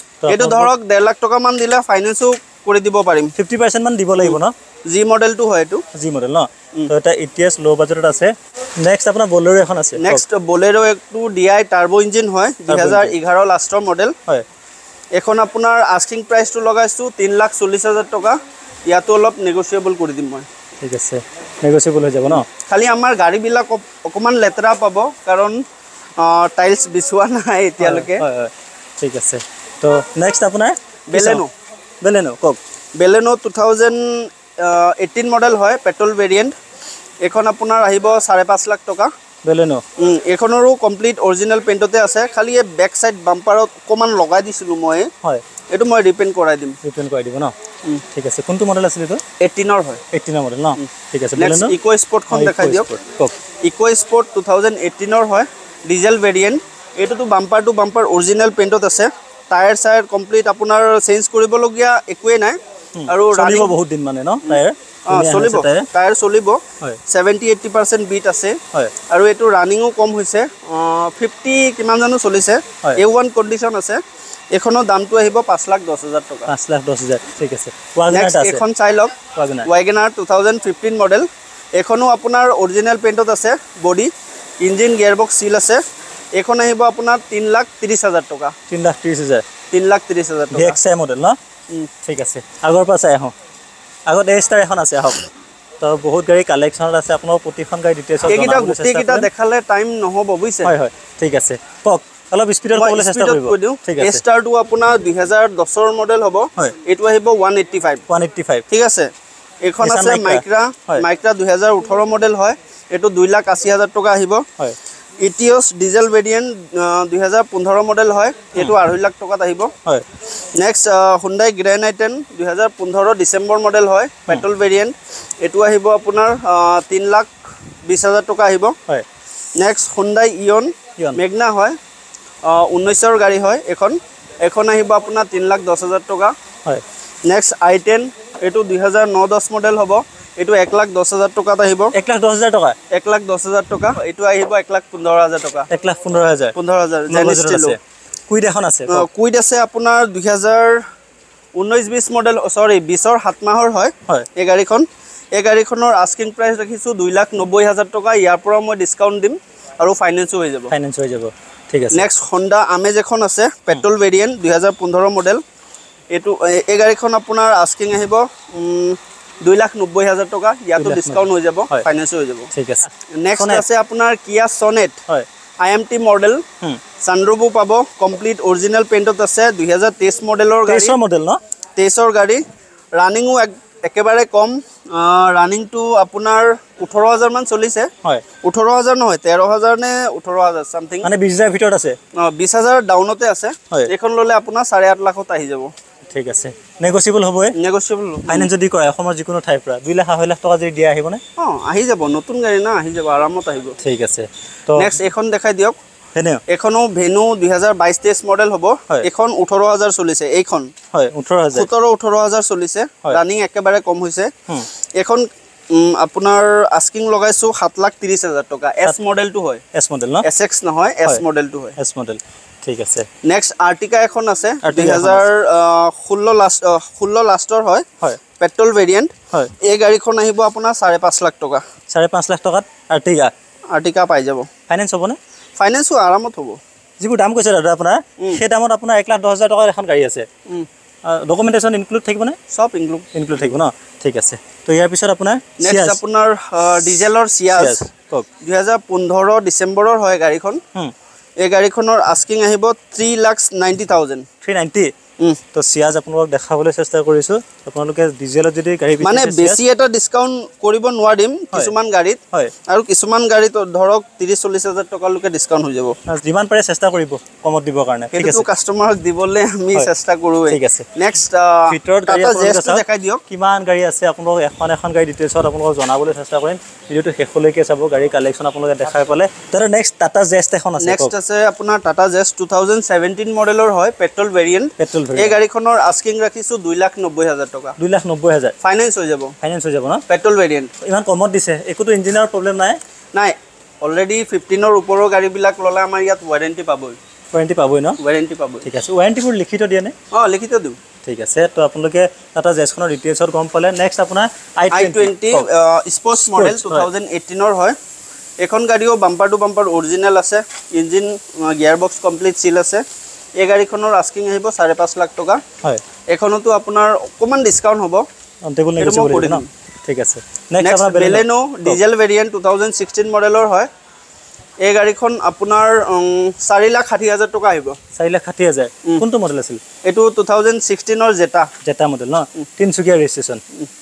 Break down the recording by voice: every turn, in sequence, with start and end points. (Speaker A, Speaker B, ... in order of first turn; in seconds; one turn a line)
Speaker A: 0.2-0.7
Speaker B: 0.3-3.3
Speaker A: 3.4-4.5
Speaker B: 4.2-5.8
Speaker A: 5.9-10.2
Speaker B: 10.0-14.2
Speaker A: 12.7-13.2
Speaker B: 15.2-20.5
Speaker A: 20.8-22.5
Speaker B: 22.3-25.6
Speaker B: 26.2-28.2
Speaker A: 27.8-31.4
Speaker B: 31.1-31.5
Speaker A: 32.0-32.6
Speaker B: 33.0-36.5
Speaker B: 37.2-39.1
Speaker A: 39.4-39.8
Speaker B: 40.0-45.1
Speaker B: 45.7-46.8
Speaker A: 46.8-47.5
Speaker A: 48.1-49.2
Speaker B: 49.4-50.0
Speaker A: 50.1-51.7
Speaker B: 50.8-52.9
Speaker A: 52.3-53.4
Speaker B: 53.6-63.8
Speaker A: 63.0-65.9
Speaker B: 64.4-68.6
Speaker B: 69.1-74.0
Speaker B: 74.5-76.5
Speaker A: 76.5-78.6
Speaker B: 78.1-79.1
Speaker A: 79.4-79.7
Speaker B: 79.7-81.3
Speaker B: 81.8-85.8
Speaker B: 86.4-88.5
Speaker A: 88.7-89.5
Speaker B: 89.7-90.8
Speaker A: 90.5-91.4
Speaker A: 92.0-93.3
Speaker A: 94.1-95.2
Speaker A: 95.8-99.3
Speaker B: 98.2-100.7
Speaker A: 100.6-104.2
Speaker B: 102.7-108.0
Speaker A: 108.1-108.7
Speaker B: 108.7-109.1
Speaker B: 109.6-114.5
Speaker A: 109.8-111.0
Speaker B: 115.2-119.7
Speaker B: 120.6-127.3
Speaker B: 127.9-128.8
Speaker B: 129.6-131.8
Speaker B: 132.4-136.3
Speaker B: 137.3-141.9
Speaker A: 141.9-142.8
Speaker B: 142.9-145.7
Speaker A: 145.7-146.6
Speaker B: 146.6-147.8
Speaker A: 147.1-149.1
Speaker B: 148.9-150.8
Speaker B: 151.6-160.7
Speaker A: 160.7-162.1
Speaker B: 161.9-165.4
Speaker B: 166.1-172.5
Speaker A: 170.8-171.9
Speaker A: 172.5-173.6
Speaker B: 173.1-175.0
Speaker B: 175.6-176.4
Speaker B: 177.0-181.0
Speaker A: 180.7-181.4
Speaker B: 181.8-182.4
Speaker B: 183.0-187.9
Speaker B: 188.4-191.1
Speaker A: 191.0-192.0
Speaker B: 192.2-195.7
Speaker A: 196.1-197.6
Speaker B: 197.6-198.5
Speaker A: 198.3-201.2
Speaker B: 201.4-203.8
Speaker A: 203.8-204.9
Speaker B: 204.8-205.8
Speaker A: 206.2-206.4
Speaker B: 206.5-210.7
Speaker A: 210.9-211.7
Speaker B: 211.5-214.3
Speaker B: 215.0-219.6
Speaker A: 219.7-220.2
Speaker B: 220.2-221.8
Speaker A: 221.8-223.1
Speaker B: 223.2-227.9
Speaker A: 224.6-225.3
Speaker B: 228.4-231.6
Speaker A: 231.9-233.3
Speaker B: 233.7-234.5
Speaker A: 234.7-235.2
Speaker B: 235.6-236.6
Speaker A: 237.0-240.3
Speaker A: 241.1-242.4
Speaker B: 242.5-243.5
Speaker A: 243.1-246.0
Speaker B: 245.6-247.8
Speaker A: 247.5-248.3
Speaker B: 248.4-250.6
Speaker B: 251.4-254.3
Speaker A: 254.4-254.9
Speaker A: 255.5-259.6
Speaker B: 259.0-266.0
Speaker A: 266.1-268.5
Speaker B: 268.1-273.2
Speaker A: 270.5-270.9
Speaker A: 271.7-281.1
Speaker B: 280.8-287.8
Speaker A: 284.8-285.4
Speaker A: 287.8-288.5
Speaker B: 288.6-289.4
Speaker A: 289.4-290.0
Speaker B: 290.1-290.7
Speaker A: 290.8-292.8
Speaker B: 293.1-297.0
Speaker A: 297.3-298.0
Speaker B: 298.0-298.7
Speaker A: 298.6-299.9
Speaker B: 300.1-300.8
Speaker A: 301.0-305.5
Speaker B: 304.7-307.8
Speaker A: 306.1-306.9
Speaker B: 308.4-312.8
Speaker B: 313.4-315.4
Speaker B: 316.1-318.1
Speaker A: 318.5-321.8
Speaker B: 318.8-319.5
Speaker B: 320.6-323.7
Speaker B: 324.6-327.8
Speaker A: 328.0-329.6
Speaker B: 329.9-331.5
Speaker A: 331.6-333.4